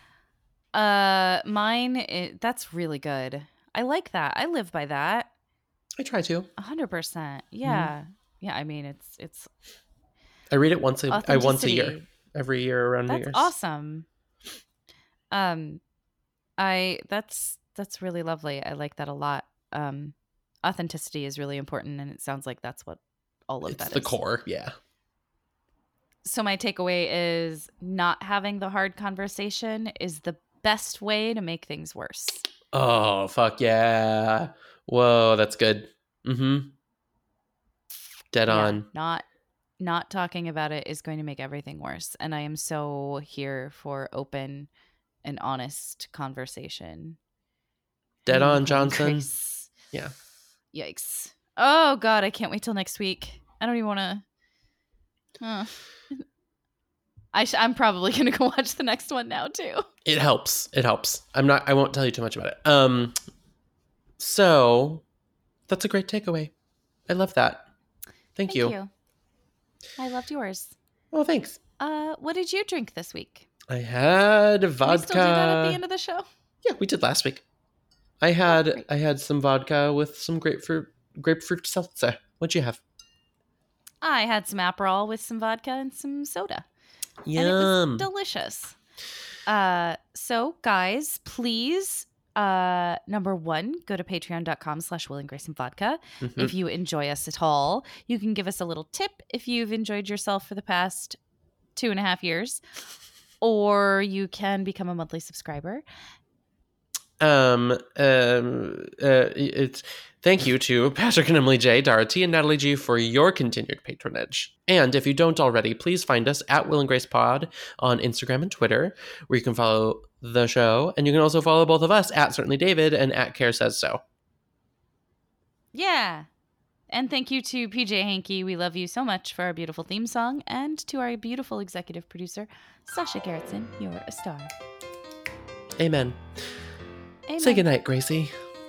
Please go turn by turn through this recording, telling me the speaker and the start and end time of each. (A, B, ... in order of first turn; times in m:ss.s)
0:00.7-0:05.3 A
0:06.0-0:06.5 B
0:06.6-0:09.5 A
0:07.6-0:07.9 B
0:10.5-0:13.5 B
0:11.1-0:12.0 A
0:13.1-0:14.1 A
0:15.3-0:15.8 A
0:16.6-0:24.1 A
0:23.7-0:24.7 B
0:26.2-0:32.5 A
0:32.7-0:36.7 B
0:38.3-0:38.9 B
0:38.5-0:39.3 A
0:39.8-0:44.7 A
0:45.2-0:47.2 A
0:48.2-0:49.3 B
0:48.3-0:49.7 A
0:50.7-0:54.2 A
0:55.4-0:56.2 A
0:57.3-0:59.8 A
1:00.0-1:03.2 B
1:04.2-1:05.0 B
1:05.7-1:06.5 B
1:07.1-1:07.7 B
1:08.4-1:08.7 B
1:08.5-1:08.9 A
1:10.0-1:10.8 A
1:11.1-1:11.6 B
1:11.8-1:13.5 A
1:13.7-1:15.8 B
1:14.8-1:16.3 A
1:16.6-1:17.4 B
1:18.2-1:22.8 B
1:18.5-1:18.8 A
1:24.0-1:26.7 A
1:27.3-1:28.1 B
1:27.4-1:28.8 A
1:29.4-1:41.2 A
1:36.2-1:36.5 B
1:41.8-1:42.6 A
1:43.4-1:45.8 A
1:47.2-2:04.0 B
2:05.7-2:06.3 A
2:06.9-2:14.5 A
2:15.8-2:16.2 B
2:17.3-2:17.6 A
2:17.4-2:18.3 B